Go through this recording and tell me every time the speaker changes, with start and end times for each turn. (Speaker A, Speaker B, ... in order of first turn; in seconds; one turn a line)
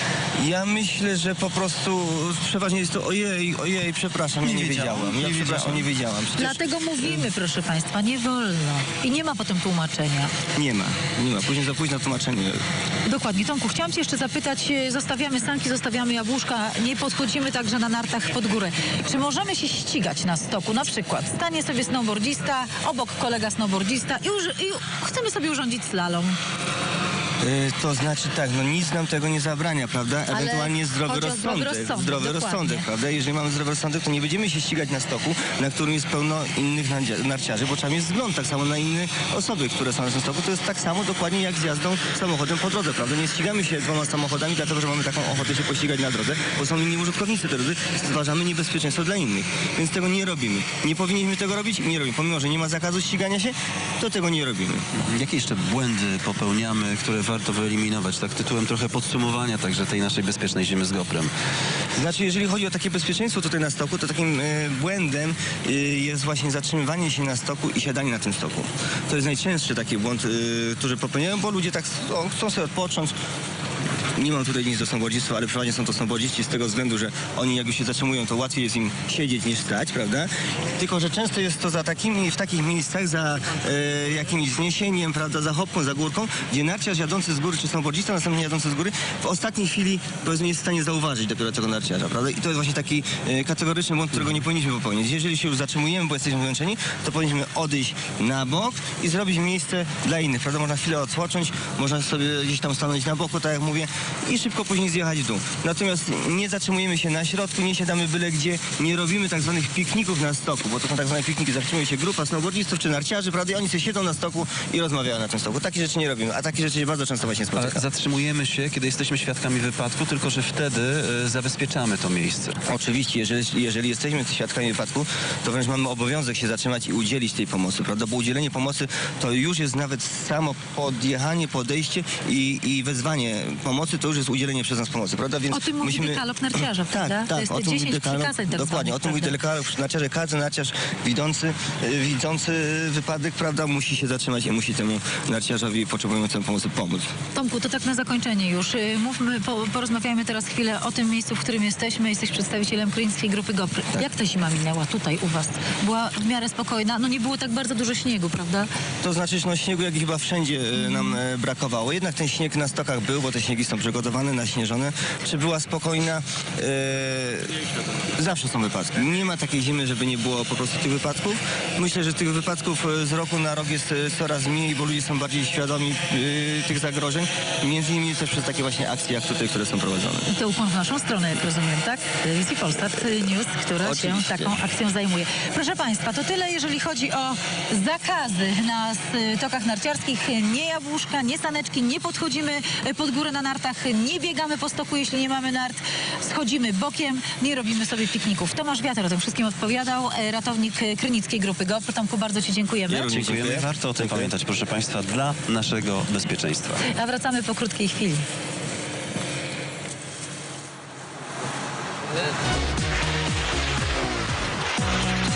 Speaker A: 0.4-6.6
Speaker B: 4.4-5.8
Speaker C: 6.4-10.3
Speaker A: 10.6-12.6
Speaker C: 13.1-26.4
Speaker A: 27.4-54.8
Speaker C: 30.3-32.9
Speaker B: 55.1-61.3
Speaker A: 61.9-73.2
Speaker A: 74.2-117.8
Speaker B: 117.6-122.6
Speaker A: 122.7-147.1
Speaker C: 135.5-139.3
Speaker C: 147.3-158.7
Speaker A: 159.0-167.6
Speaker C: 160.8-161.2
Speaker A: 168.1-180.3
Speaker C: 180.3-203.1
Speaker A: 183.8-184.6
Speaker A: 202.9-204.3
Speaker B: 203.1-206.8
Speaker C: 206.9-208.2